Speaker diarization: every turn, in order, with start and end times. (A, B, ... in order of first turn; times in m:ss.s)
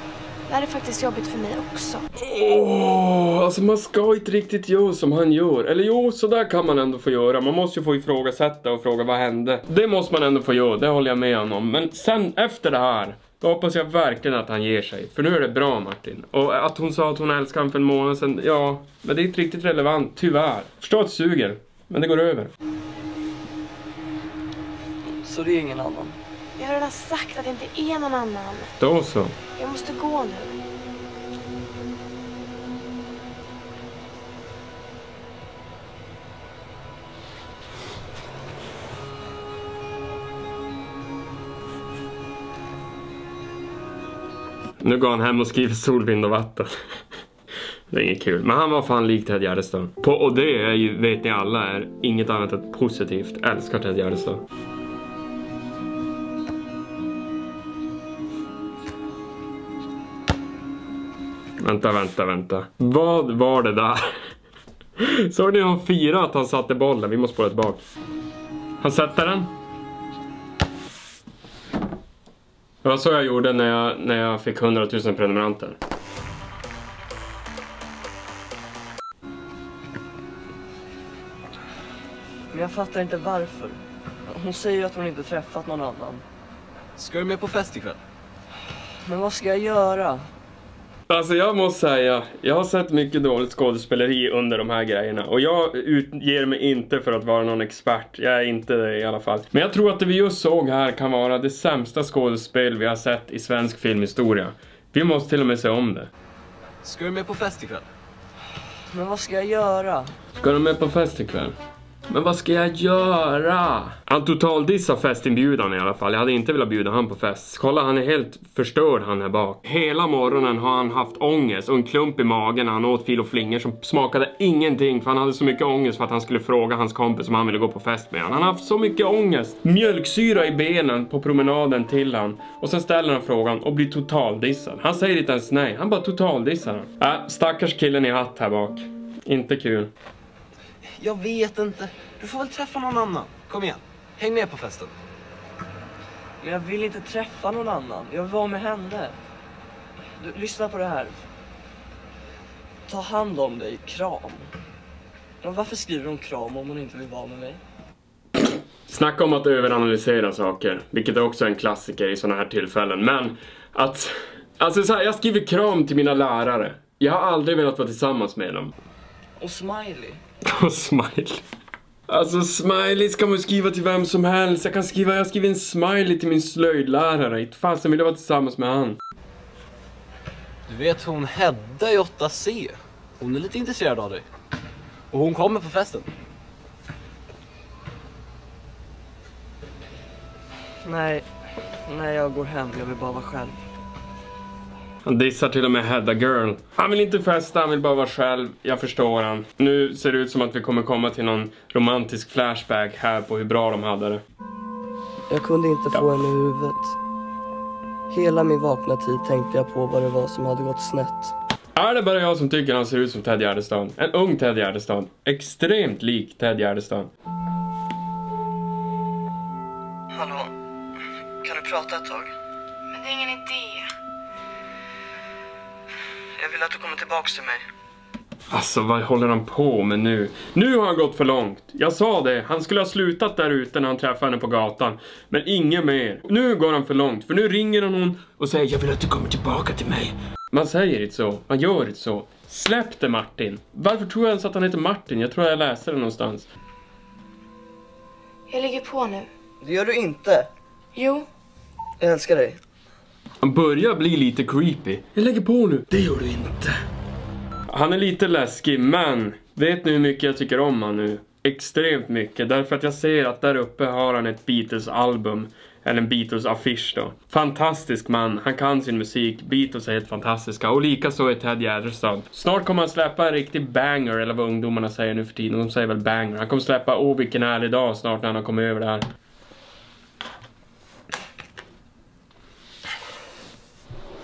0:00.6-0:02.0 A
0:02.2-0:22.5 B
0:25.2-0:26.2 C
0:26.6-0:28.7 A
0:28.8-0:29.3 B
0:29.8-0:30.5 A
0:44.8-0:46.7 B
0:47.9-0:54.4 B
1:01.6-1:04.1 B
1:05.0-1:07.8 B
1:08.8-1:09.5 B
1:12.8-1:15.8 B
1:22.5-1:26.2 C
1:27.0-1:28.0 D
1:29.0-1:30.2 C
1:31.1-1:46.1 B
1:46.8-1:47.9 D
1:48.9-1:50.1 C
1:50.4-1:51.5 B
1:52.1-2:19.9 B
2:20.9-2:24.9 D
2:26.4-2:29.2 C
2:30.2-2:31.2 C
2:32.9-2:34.5 C
2:35.4-2:37.6 C
2:38.9-2:48.7 B
2:49.4-2:50.2 C
2:50.4-2:51.4 B
2:52.1-2:59.0 B
3:00.7-3:04.2 D
3:05.1-3:06.1 D
3:10.8-3:11.2 C
3:11.9-3:13.6 C
3:15.0-3:24.2 B
3:25.3-3:26.9 C
3:28.1-3:31.3 C
3:31.8-3:37.1 B
3:40.1-3:40.5 C
3:41.4-3:42.3 C
3:43.1-3:43.8 A
3:46.4-3:47.6 C
3:48.5-4:06.5 B
4:08.5-4:09.2 A
4:09.6-4:10.5 C
4:12.0-4:12.6 C
4:13.4-4:16.7 B
4:17.7-4:39.0 B